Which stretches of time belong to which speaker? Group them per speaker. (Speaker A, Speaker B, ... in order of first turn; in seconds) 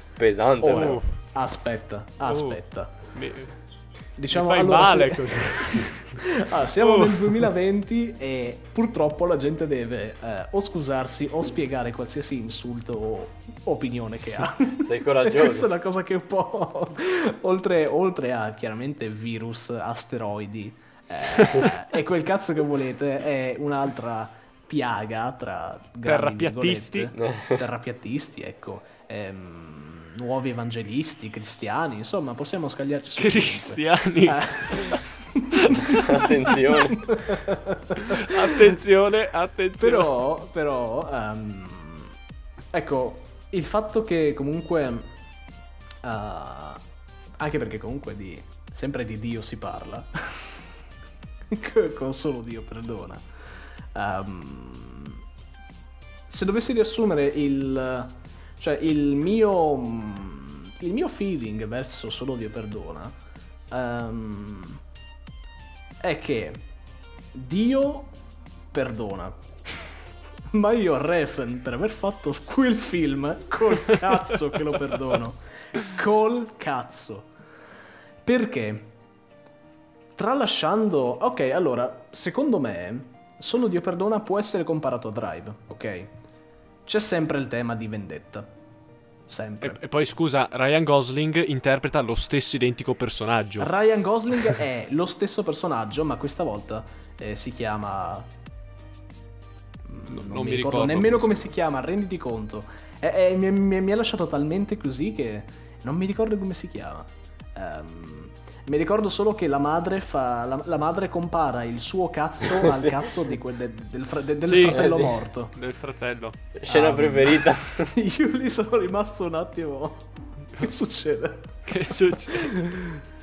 Speaker A: 0.2-1.0, 14.8-15.7, 27.2-27.6, 35.7-37.2, 112.6-112.9, 114.7-115.1, 116.5-117.9
Speaker B: 0.6-3.0, 4.2-35.6, 36.7-38.7, 39.8-42.1, 42.7-45.1, 46.0-46.8, 47.4-50.6, 51.5-53.2, 54.0-55.2, 56.3-63.2, 63.7-64.8, 66.0-66.6, 67.3-68.1, 68.7-69.9, 70.5-77.3, 78.2-78.9, 80.2-86.1, 86.9-88.5, 89.3-89.8, 93.6-98.3, 99.8-115.5, 116.7-121.6, 122.1-123.0
Speaker C: 0.7-1.1, 2.3-2.6, 3.1-3.5, 4.3-6.2, 6.8-7.5, 26.1-27.1, 33.2-35.0, 35.7-36.1, 38.0-40.1, 89.6-93.7, 100.1-101.5, 114.4-114.9, 115.5-116.4, 121.7-122.5